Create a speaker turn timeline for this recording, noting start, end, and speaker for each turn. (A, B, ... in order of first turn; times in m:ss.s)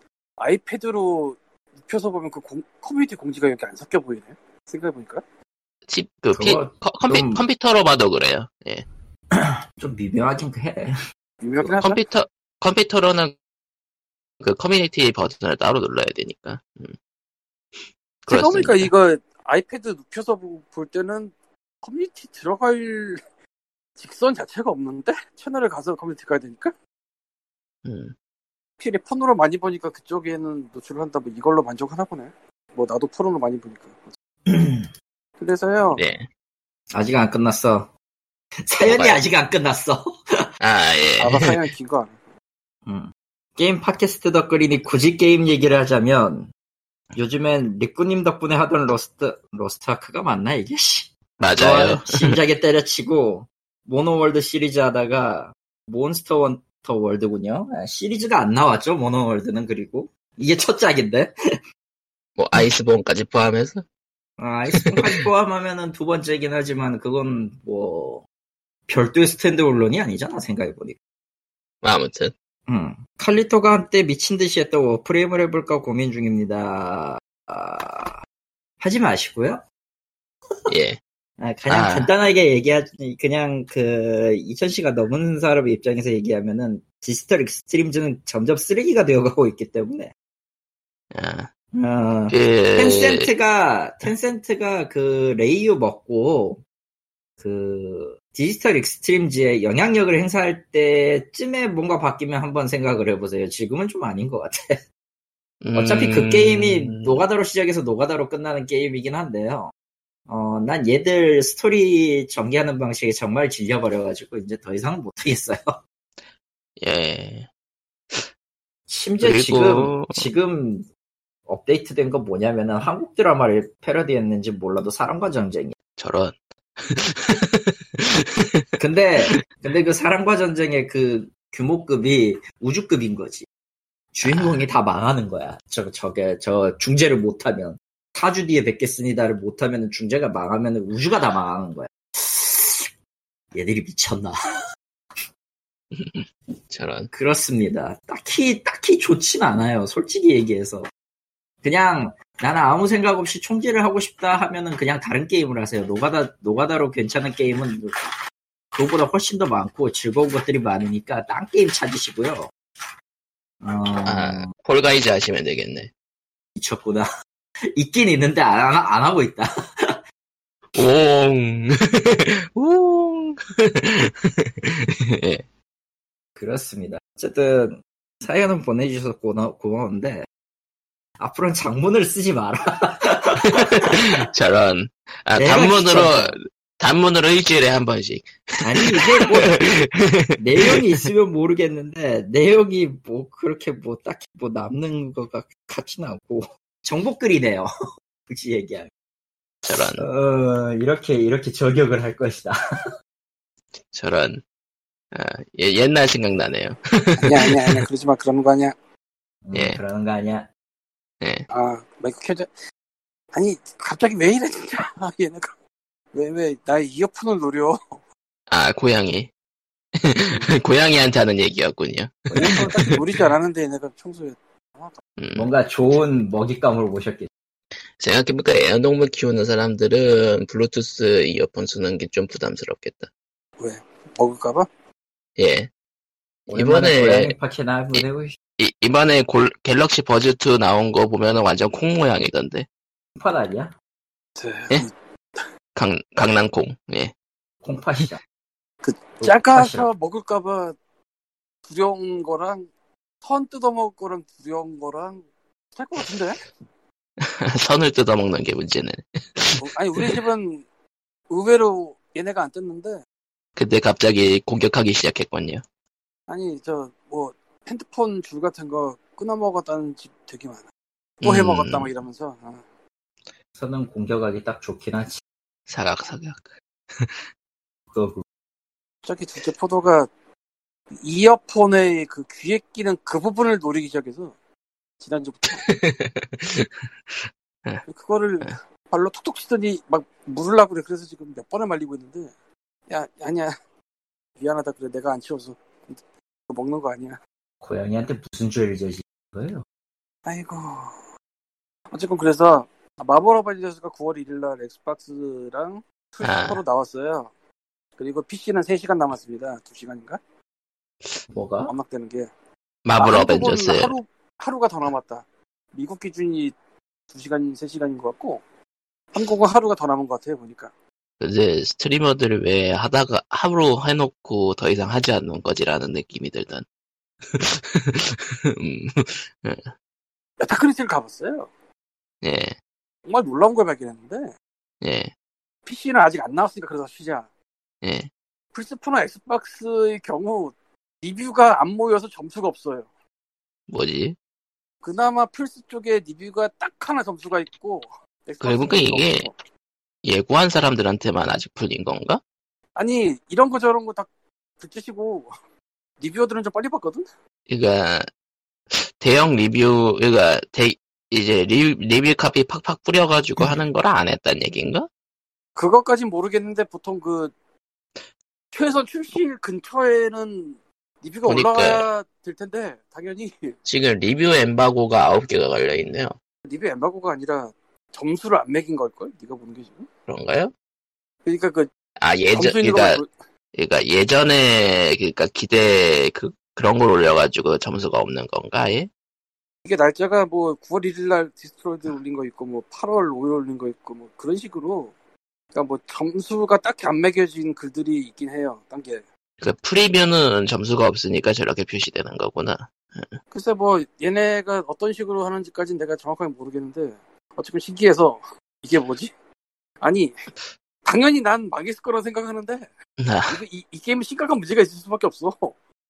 0:00.4-0:05.2 A
0:05.9-0:08.8 B
0:06.3-0:07.4 C
0:09.3-0:10.9 C
0:11.4-0:12.0 A
0:11.7-0:13.3 B
0:14.4-0:16.9 B
0:17.8-0:18.9 B
0:18.3-0:23.2 A
0:24.0-0:26.7 A
0:27.8-0:28.1 B
0:28.8-0:34.1 A
0:34.5-0:34.9 C
0:35.4-0:36.0 A
0:35.9-0:36.3 B
0:36.9-0:37.9 C
0:38.6-0:40.4 C
0:38.8-0:39.2 B
0:40.6-0:41.6 B
0:41.2-0:42.2 A
0:42.9-0:46.5 C
0:47.1-1:01.3 C
0:51.4-0:52.4 B
1:02.4-1:03.8 B
1:04.4-1:08.2 C
1:04.7-1:05.2 B
1:08.9-1:11.0 C
1:11.8-1:12.3 B
1:12.7-1:18.2 C
1:18.8-1:19.6 C
1:20.7-1:21.0 B
1:21.4-1:30.1 C
1:21.7-1:22.1 B
1:31.1-1:31.5 B
1:31.7-1:36.6 C
1:32.3-1:33.3 B
1:37.4-1:44.8 C
1:45.6-1:47.2 B
1:45.8-1:49.7 C
1:50.3-1:55.8 C
1:56.8-1:57.5 B
1:58.9-2:00.9 C
1:59.2-2:00.2 B
2:01.5-2:05.8 C
2:06.0-2:08.6 B
2:08.8-2:13.4 C
2:14.1-2:22.9 C
2:14.2-2:14.6 B
2:23.5-2:24.4 C
2:25.9-2:27.1 B
2:27.1-2:30.9 C
2:31.6-2:38.0 C
2:38.7-2:42.5 C
2:43.6-2:44.5 C
2:44.0-2:45.9 B
2:46.6-2:47.1 C
2:47.7-2:50.0 C
2:50.8-2:55.4 B
2:56.4-3:00.2 C
3:01.2-3:04.0 C
3:03.4-3:10.8 B
3:05.4-3:06.3 C
3:08.6-3:09.6 C
3:10.4-3:17.7 C
3:18.3-3:18.9 C
3:19.6-3:20.0 B
3:19.7-3:22.6 C
3:23.9-3:24.4 B
3:25.1-3:27.8 B
3:27.2-3:28.8 A
3:29.4-3:30.5 C
3:29.5-3:29.8 B
3:31.2-3:31.5 B
3:31.5-3:32.5 A
3:33.3-3:35.5 A
3:36.1-3:38.0 A
3:38.5-3:39.3 B
3:40.0-3:43.0 B
3:42.3-3:45.0 A
3:45.2-3:45.5 B
3:45.3-3:47.3 C
3:48.0-3:53.1 B
3:53.6-3:54.7 A
3:55.4-3:55.7 B
3:56.5-3:57.4 B
3:56.5-3:58.4 C
3:58.6-4:02.7 B
4:03.2-4:03.7 C
4:04.4-4:05.4 A
4:05.8-4:07.1 B
4:07.6-4:08.2 C
4:08.8-4:10.8 A
4:09.2-4:09.9 C
4:11.6-4:12.7 A
4:13.2-4:16.4 A
4:17.2-4:20.2 B
4:19.6-4:20.6 A
4:21.3-4:23.0 A
4:23.6-4:25.6 B
4:26.3-4:30.7 A
4:31.2-4:32.6 A
4:31.2-4:31.9 B
4:33.6-4:35.2 C
4:35.7-4:37.2 B
4:37.9-4:38.2 C
4:39.0-4:40.1 A
4:41.0-4:44.3 A
4:45.0-4:45.6 A
4:45.5-4:47.8 B
4:47.9-4:52.3 A
4:52.9-4:53.6 A
4:54.4-4:57.2 A
4:57.6-4:59.6 C
5:00.2-5:01.0 A
5:01.9-5:07.3 A
5:06.2-5:06.6 B
5:08.0-5:10.2 A
5:11.3-5:11.7 C
5:11.7-5:12.3 A
5:12.8-5:14.0 B
5:13.0-5:16.5 A
5:17.1-5:18.4 A
5:19.1-5:20.7 A
5:21.2-5:26.6 B
5:27.3-5:29.7 B
5:30.4-5:31.5 A
5:32.2-5:32.5 B
5:33.1-5:34.3 A
5:34.8-5:35.1 B
5:35.6-5:37.3 A
5:37.8-5:38.1 B
5:38.5-5:42.9 A
5:43.7-5:44.2 B
5:44.8-5:49.4 A
5:48.4-5:49.3 B
5:50.0-5:52.2 B
5:52.8-5:55.3 A
5:56.0-5:57.0 A
5:57.5-5:58.1 B
5:58.7-6:04.9 B
6:05.6-6:07.3 A
6:08.5-6:13.6 A
6:11.2-6:11.8 B
6:13.7-6:16.1 B
6:16.5-6:19.9 A
6:20.1-6:20.5 B
6:21.2-6:21.7 A
6:22.0-6:23.0 B
6:22.3-6:23.1 A
6:23.5-6:28.9 B
6:29.6-6:34.9 A
6:35.5-6:39.0 A
6:39.4-6:43.2 B
6:43.3-6:49.1 A
6:49.8-6:50.3 A
6:50.8-6:52.7 A
6:53.0-6:53.4 B
6:53.3-6:55.5 A